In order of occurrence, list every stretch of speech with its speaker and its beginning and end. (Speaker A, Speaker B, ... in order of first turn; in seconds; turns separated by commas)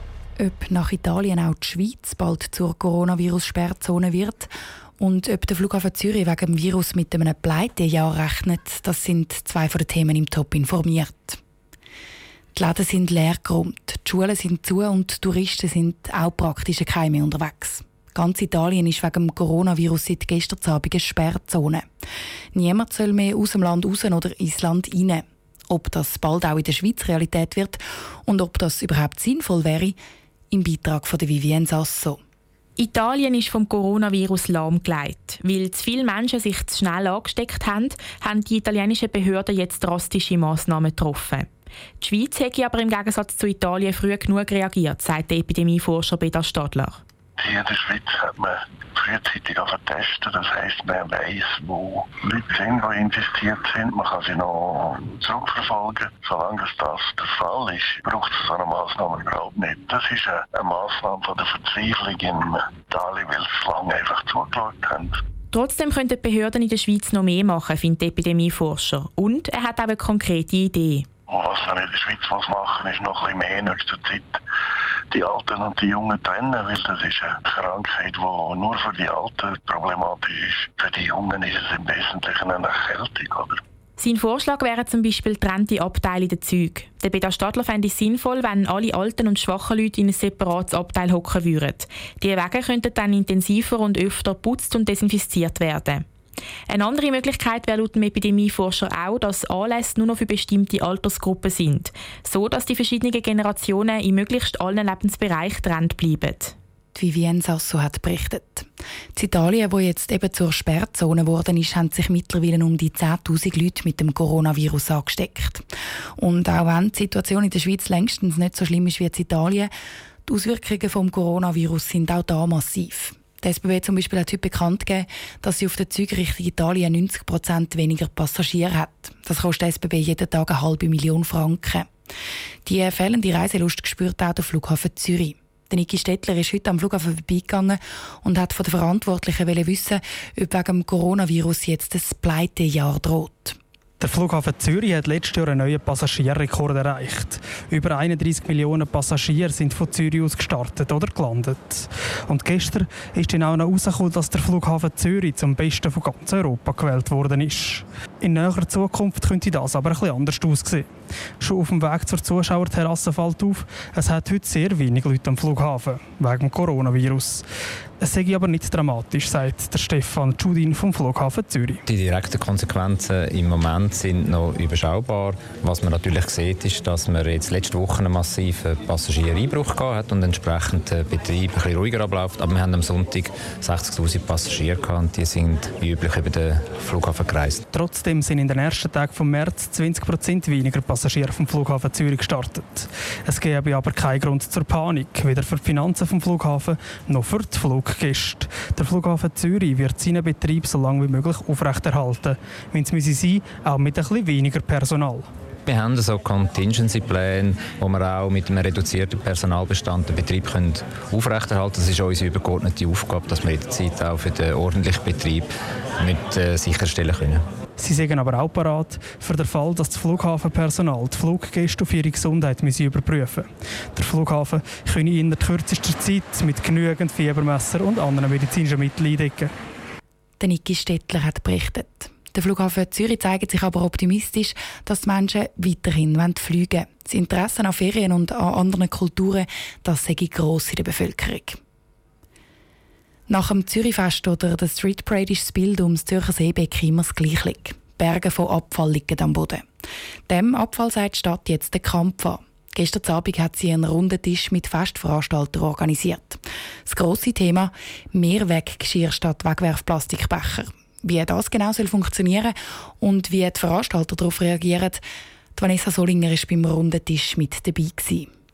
Speaker A: 0.4-11.4, Speaker A: 12.5-21.9, Speaker A: 22.5-30.0, Speaker A: 30.5-32.2, Speaker B: 32.8-41.4, Speaker B: 42.0-46.9, Speaker C: 47.4-65.1, Speaker B: 65.5-71.0, Speaker C: 71.3-74.3, Speaker C: 75.1-83.6, Speaker B: 84.0-91.8, Speaker B: 92.3-96.0, Speaker B: 96.7-106.4, Speaker A: 107.0-115.7, Speaker A: 116.2-119.7, Speaker A: 120.3-131.9, Speaker A: 132.7-143.6, Speaker D: 144.0-160.9, Speaker D: 161.4-167.4, Speaker D: 168.0-171.8, Speaker E: 171.8-187.6, Speaker D: 187.7-205.3, Speaker E: 205.7-217.4, Speaker D: 217.8-229.5, Speaker A: 230.4-241.6, Speaker A: 243.3-249.6, Speaker A: 250.3-265.0, Speaker A: 265.5-268.3